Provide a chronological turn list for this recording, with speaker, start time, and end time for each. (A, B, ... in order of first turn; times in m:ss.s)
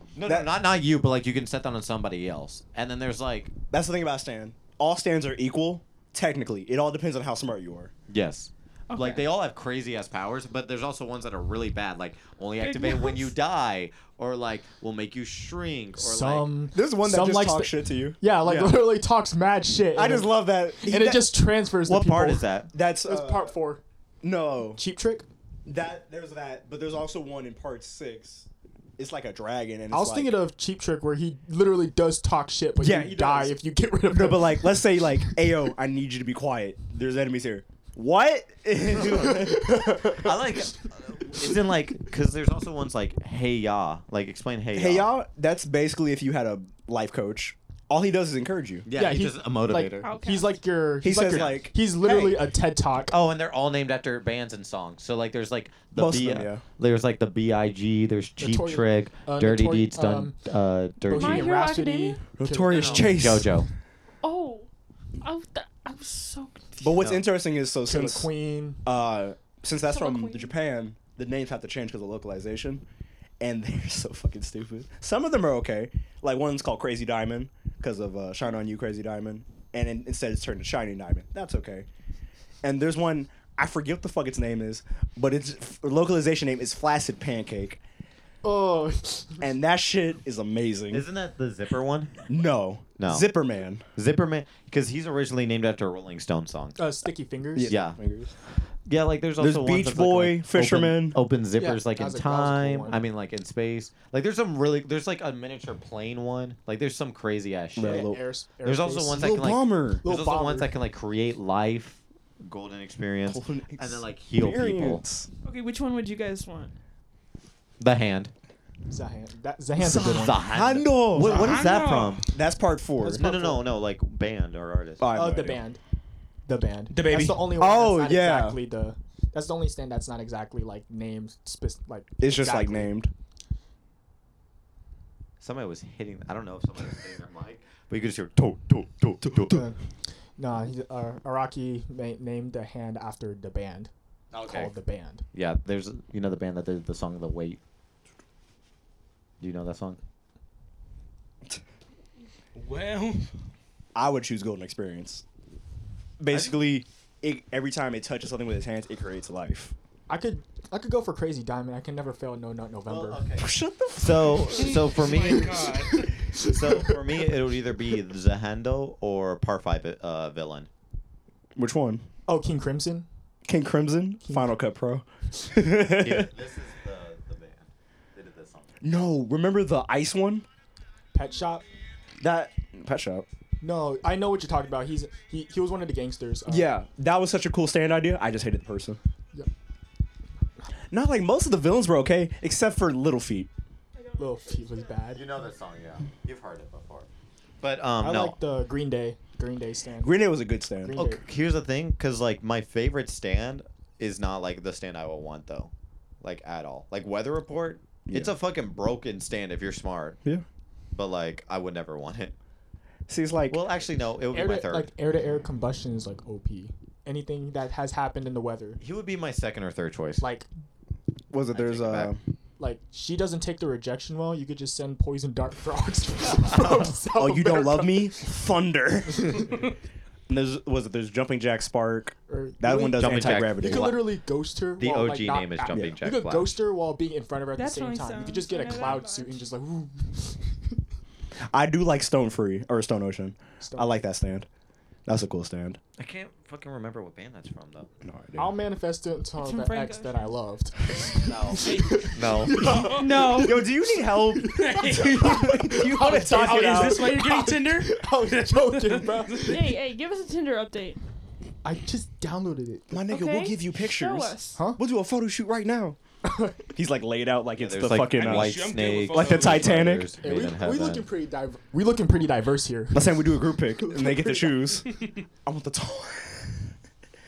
0:00.2-0:03.5 A
0:03.7-0:07.9 B
0:08.1-0:16.5 A
0:08.9-0:09.2 C
0:12.6-0:13.3 C
0:16.0-0:22.4 D
0:16.7-0:18.7 B
0:18.4-0:18.8 A
0:20.0-0:21.4 B
0:21.8-0:22.7 A
0:22.7-0:23.5 B
0:23.0-0:23.8 D
0:24.2-0:24.8 B
0:24.8-0:25.3 D
0:25.7-0:28.5 B
0:29.0-0:30.4 B
0:29.9-0:35.3 D
0:32.8-0:33.6 B
0:34.1-0:39.8 B
0:39.0-0:39.5 A
0:39.1-0:40.6 D
0:40.1-0:45.1 A
0:44.8-0:48.9 B
0:48.9-0:50.1 A
0:48.9-0:53.2 D
0:50.0-0:50.6 C
0:51.0-0:52.4 B
0:51.2-0:51.6 A
0:53.1-1:01.5 A
0:56.0-0:56.6 B
0:58.4-1:00.4 D
1:01.1-1:03.4 D
1:01.1-1:02.2 C
1:02.4-1:03.6 B
1:02.7-1:03.7 A
1:04.2-1:04.7 C
1:05.2-1:06.9 C
1:06.8-1:08.3 B
1:07.0-1:07.2 A
1:07.9-1:08.8 D
1:08.8-1:12.8 B
1:09.8-1:10.5 C
1:13.4-1:21.9 B
1:22.6-1:27.8 B
1:28.4-1:29.5 D
1:29.4-1:31.1 B
1:30.9-1:32.2 A
1:32.3-1:33.8 B
1:33.0-1:33.3 A
1:34.0-1:36.8 A
1:36.8-1:37.7 D
1:37.6-1:38.3 B
1:37.7-1:38.0 A
1:38.9-1:55.0 A
1:39.4-1:41.2 B
1:41.6-1:43.0 D
1:47.8-1:48.2 B
1:47.8-1:49.2 D
1:49.1-1:50.0 B
1:50.0-1:50.7 D
1:53.2-1:55.3 B
1:55.4-1:56.7 C
1:57.8-1:58.3 A
1:58.9-2:00.5 D
1:59.8-2:02.2 A
1:59.8-2:01.6 B
2:01.2-2:02.2 E
2:01.4-2:02.2 C
2:02.3-2:03.6 B
2:03.0-2:03.5 D
2:03.1-2:05.0 A
2:05.0-2:05.6 B
2:05.1-2:05.8 D
2:06.5-2:13.0 D
2:06.9-2:07.4 E
2:07.5-2:08.6 B
2:12.2-2:13.1 B
2:15.4-2:19.6 A
2:19.5-2:19.8 D
2:20.4-2:23.9 D
2:24.3-2:24.8 A
2:24.4-2:25.2 D
2:25.3-2:27.6 A
2:29.4-2:30.0 A
2:32.6-2:33.3 E
2:34.0-2:35.2 B
2:36.2-2:39.7 B
2:40.1-2:43.2 D
2:42.9-2:45.8 A
2:43.4-2:44.7 B
2:44.5-2:46.1 E
2:45.6-2:47.0 D
2:46.4-2:50.7 A
2:51.6-2:52.0 B
2:52.3-2:53.1 D
2:53.5-2:56.3 B
2:54.3-2:54.6 D
2:56.0-2:58.7 A
2:58.8-3:00.4 B
3:01.1-3:01.6 D
3:02.2-3:03.3 B
3:03.6-3:06.7 D
3:06.5-3:09.0 B
3:10.9-3:13.5 B
3:14.0-3:15.1 C
3:14.2-3:15.3 D
3:15.1-3:17.1 A
3:17.6-3:18.4 A
3:18.0-3:20.2 D
3:20.0-3:21.0 B
3:20.8-3:21.2 D
3:20.9-3:25.7 A
3:26.2-3:30.2 A
3:28.1-3:28.3 B
3:30.9-3:32.3 A
3:33.1-3:33.6 B
3:33.5-3:34.9 A
3:34.3-3:38.8 D
3:38.8-3:40.3 A
3:40.2-3:40.5 D
3:41.3-3:42.2 B
3:41.5-3:42.1 A
3:42.6-3:48.2 D
3:47.1-3:49.6 B
3:50.3-3:54.1 B
3:52.3-4:00.5 D
3:53.0-3:54.0 A
3:54.8-3:56.6 A
3:55.7-3:56.0 B
3:57.6-3:59.4 C
4:01.5-4:04.5 B
4:03.6-4:04.0 D
4:05.1-4:05.8 B
4:06.0-4:07.9 A
4:08.0-4:08.5 B
4:08.4-4:19.6 D
4:09.4-4:10.3 C
4:11.2-4:12.8 A
4:11.6-4:13.0 E
4:12.8-4:13.7 C
4:13.2-4:17.2 B
4:14.5-4:19.6 E
4:19.4-4:21.0 C
4:21.6-4:23.0 D
4:22.9-4:26.0 B
4:23.1-4:24.6 C
4:24.6-4:24.8 D
4:26.2-4:26.7 D
4:26.7-4:30.1 B
4:27.6-4:31.1 A
4:28.1-4:29.9 E
4:30.2-4:33.2 D
4:32.9-4:34.9 B
4:33.8-4:34.8 D
4:34.9-4:35.2 E
4:35.4-4:36.7 B